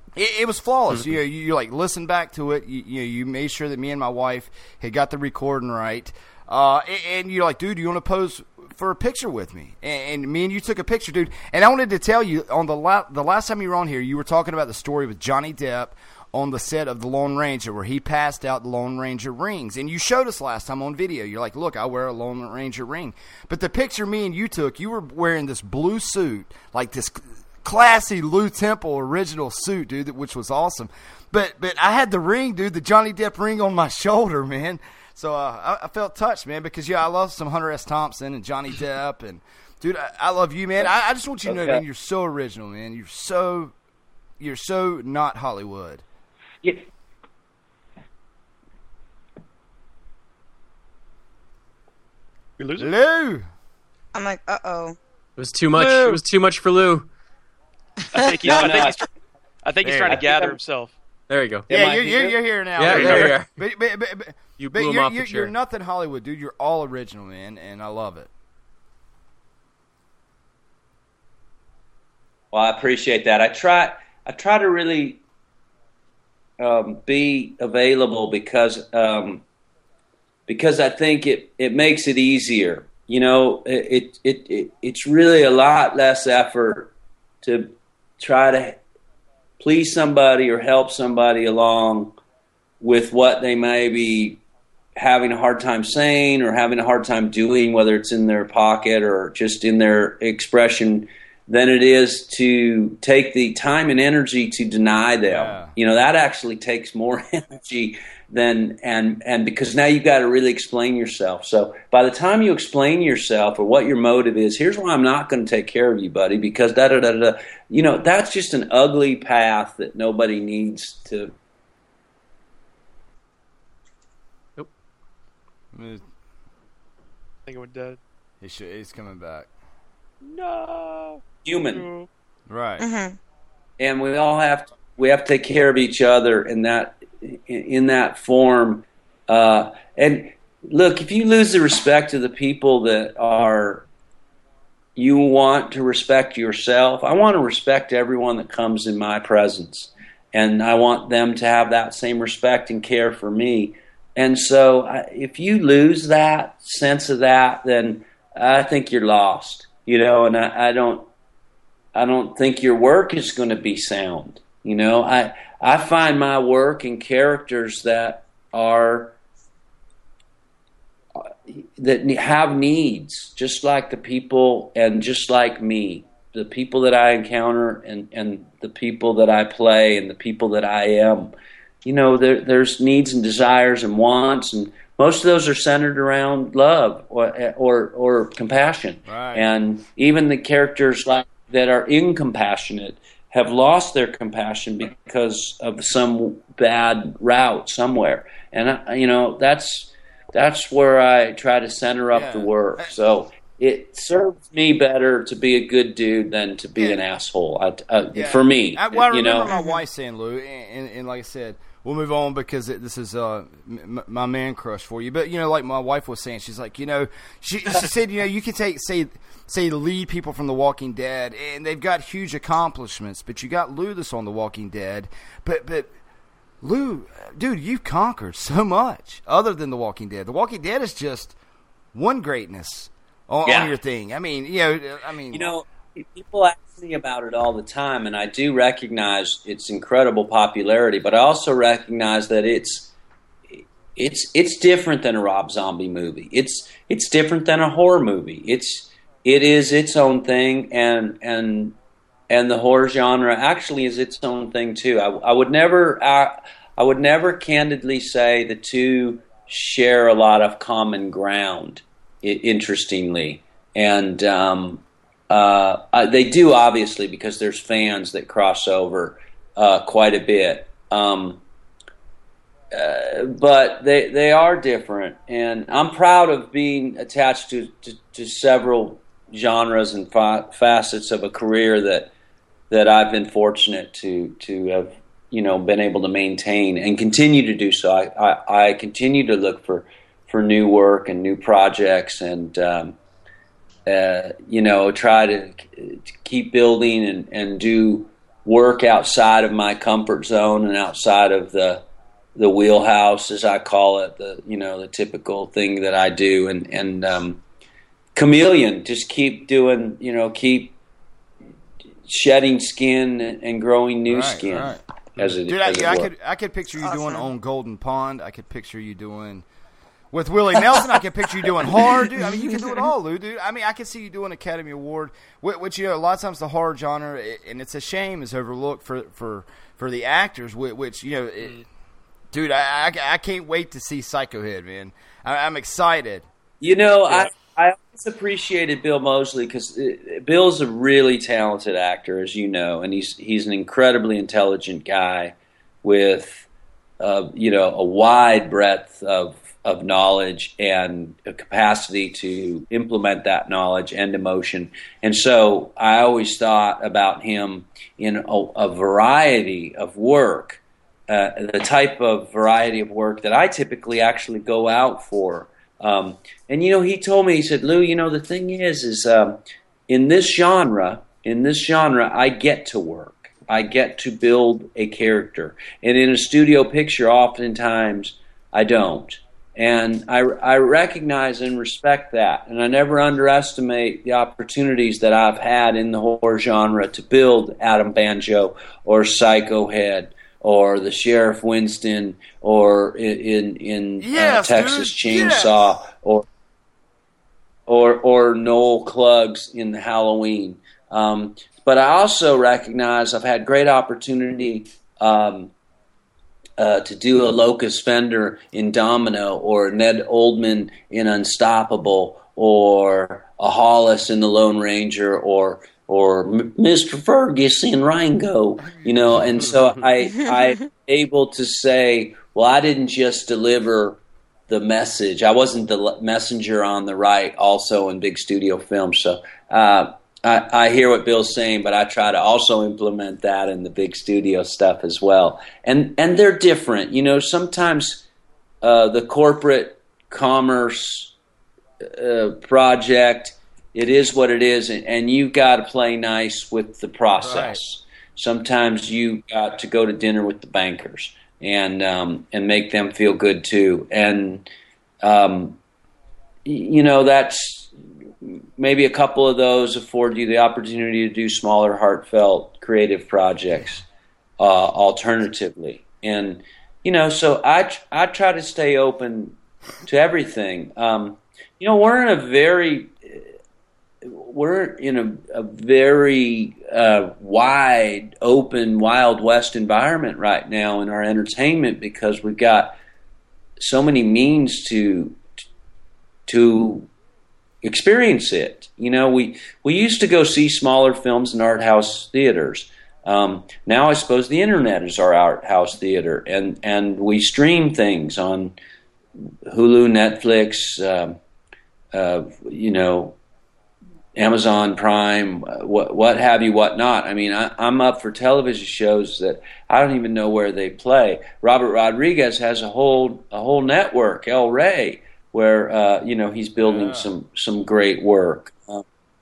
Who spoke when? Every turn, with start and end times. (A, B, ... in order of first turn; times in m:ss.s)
0:00.2-0:43.7 A
0:00.9-0:01.1 B
0:41.4-0:41.8 C
0:44.4-0:46.0 A
0:52.6-0:52.9 D
0:52.8-0:53.4 A
0:54.1-0:55.0 E
0:55.4-0:57.1 B
0:55.7-0:56.2 A
0:58.1-0:59.1 D
0:58.4-0:59.0 C
0:59.6-1:00.9 D
0:59.8-1:00.2 A
1:00.1-1:00.6 C
1:01.3-1:02.2 B
1:01.7-1:08.3 A
1:02.8-1:03.5 B
1:02.8-1:03.3 D
1:04.6-1:05.5 B
1:12.5-1:15.2 C
1:16.6-1:19.4 C
1:20.5-1:28.8 C
1:29.6-1:32.1 C
1:32.8-1:34.4 C
1:35.0-2:01.3 C
1:45.3-1:45.7 A
2:05.7-2:06.0 A
2:07.5-2:08.0 D
2:08.4-2:09.5 A
2:10.2-2:12.1 D
2:11.4-2:11.8 C
2:12.5-2:12.8 A
2:12.8-2:13.2 E
2:13.8-2:23.9 C
2:25.0-2:41.1 C
2:41.9-2:49.2 C
2:51.5-3:01.3 C
3:01.8-3:29.5 C
3:09.0-3:09.5 A
3:22.1-3:23.0 A
3:26.8-3:27.0 A
3:28.1-3:45.9 A
3:29.5-3:29.8 E
3:46.6-3:51.4 A
3:51.9-3:55.5 A
3:53.4-3:53.7 C
3:55.3-4:02.9 C
4:03.5-4:11.8 C
4:12.3-4:31.4 C
4:32.7-4:42.1 C
4:42.7-4:53.0 C
4:53.8-5:01.8 C
5:02.4-5:07.4 C
5:08.1-5:10.8 C
5:12.0-5:16.1 C
5:14.0-5:19.5 A
5:16.8-5:17.3 E
5:20.1-5:31.6 A
5:32.3-5:36.3 A
5:36.6-5:46.5 C
5:47.0-6:36.2 C
6:34.0-6:35.7 A
6:37.7-6:45.5 C
6:46.6-7:18.0 C
7:00.1-7:00.7 E
7:18.6-7:21.1 C
7:21.9-7:34.4 C
7:27.2-7:27.6 A
7:35.0-7:35.6 C
7:36.4-7:37.7 C
7:38.2-7:43.8 C
7:44.4-7:53.2 C
7:54.0-8:02.8 C
8:03.6-8:05.2 C
8:06.3-8:06.9 C
8:07.6-8:18.5 C
8:19.5-8:21.2 C
8:21.9-8:23.2 C
8:24.2-8:38.8 C
8:36.6-8:37.1 A